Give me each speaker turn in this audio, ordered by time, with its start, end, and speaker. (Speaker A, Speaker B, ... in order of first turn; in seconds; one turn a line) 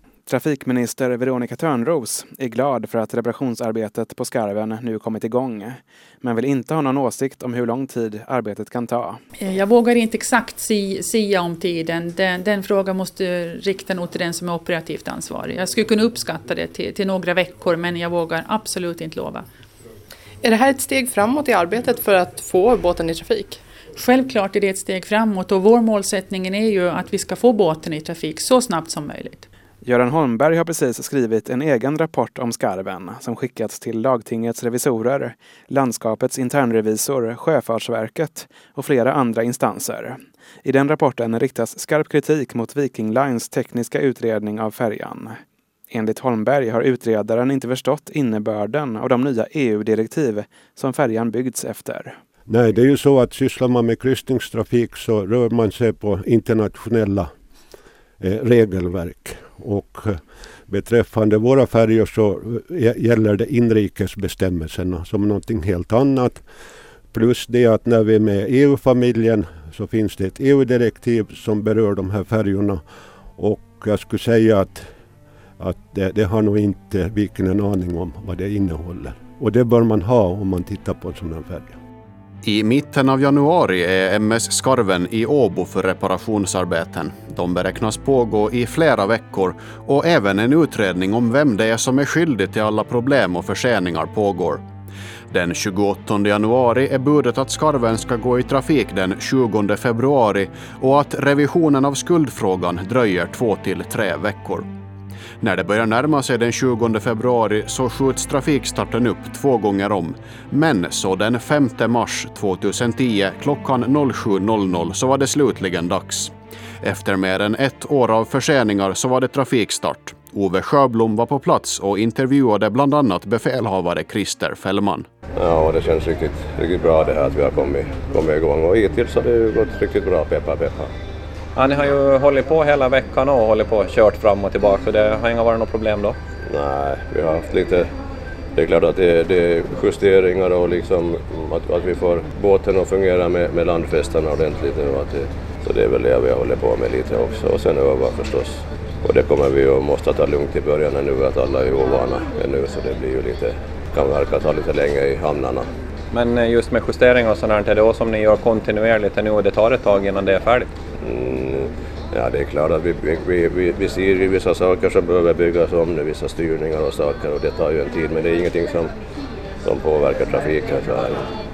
Speaker A: 0.3-9.2
Speaker B: 9.4-19.5
Speaker C: 20.4-23.6
Speaker B: 24.0-29.5
Speaker A: 29.8-52.2
Speaker D: 52.5-57.3
Speaker D: 58.2-66.4
Speaker D: 67.1-72.8
Speaker D: 73.4-74.9
Speaker D: 75.6-81.8
Speaker E: 82.4-94.6
Speaker E: 95.3-104.7
Speaker E: 105.4-125.1
Speaker F: 125.3-130.9
Speaker G: 131.6-136.2
Speaker F: 136.5-137.9
Speaker F: 138.6-155.7
Speaker G: 156.1-160.7
Speaker F: 161.0-168.9
Speaker F: 169.6-171.3